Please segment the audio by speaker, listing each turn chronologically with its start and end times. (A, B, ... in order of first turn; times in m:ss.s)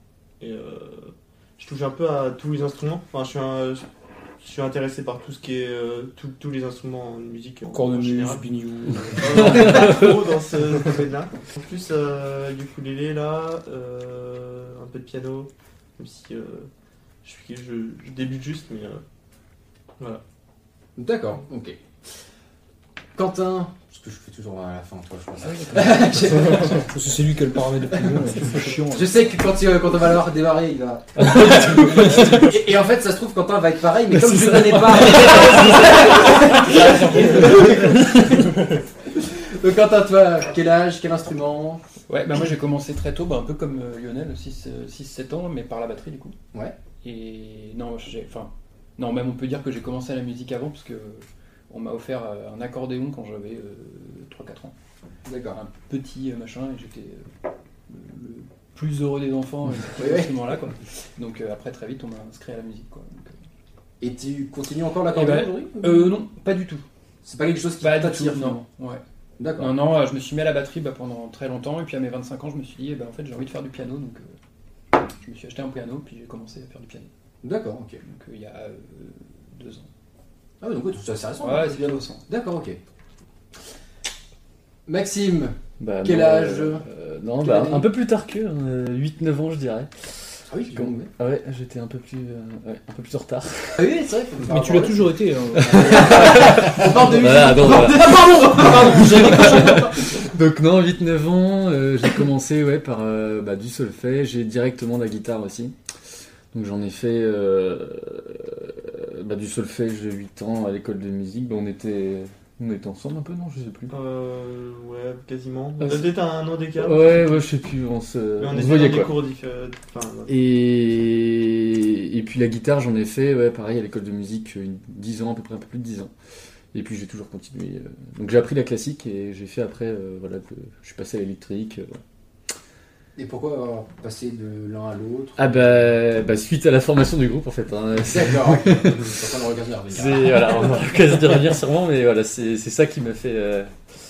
0:00.4-0:03.8 A
0:04.4-0:08.5 A
0:07.7-0:10.0 B
0:09.1-0:16.7 A
0:09.4-0:10.1 C
0:17.2-0:19.0 A
0:21.0-0:21.8 D
0:23.2-0:26.9 D
0:26.6-0:29.1 B
0:28.9-0:41.8 D
0:34.3-0:34.8 C
0:35.1-0:35.8 B
0:35.1-0:37.7 E
0:42.1-0:46.4 E
0:47.0-0:54.7 E
0:55.2-0:55.6 D
0:55.5-0:57.3 E
0:57.9-1:03.4 E
1:00.0-1:00.4 D
1:04.0-1:06.1 D
1:05.1-1:06.8 E
1:07.2-1:08.6 D
1:07.8-1:09.0 E
1:09.4-1:09.8 D
1:09.6-1:14.4 E
1:15.0-1:17.1 E
1:17.4-1:18.0 D
1:18.0-1:19.9 E
1:20.6-1:22.8 D
1:21.4-1:22.2 E
1:24.9-1:26.8 D
1:25.8-1:30.0 C
1:27.4-1:27.9 D
1:30.5-1:31.1 D
1:30.6-1:33.8 C
1:33.8-1:40.1 D
1:34.5-1:36.5 B
1:35.8-1:38.2 C
1:37.9-1:40.0 B
1:38.8-1:45.7 C
1:46.5-1:53.9 C
1:53.9-1:57.5 A
1:55.8-1:56.1 C
1:56.8-1:59.1 C
1:58.4-2:00.3 A
2:00.3-2:06.1 C
2:06.7-2:12.0 C
2:13.2-2:15.9 D
2:15.4-2:19.1 C
2:18.0-2:20.8 D
2:19.9-2:23.7 C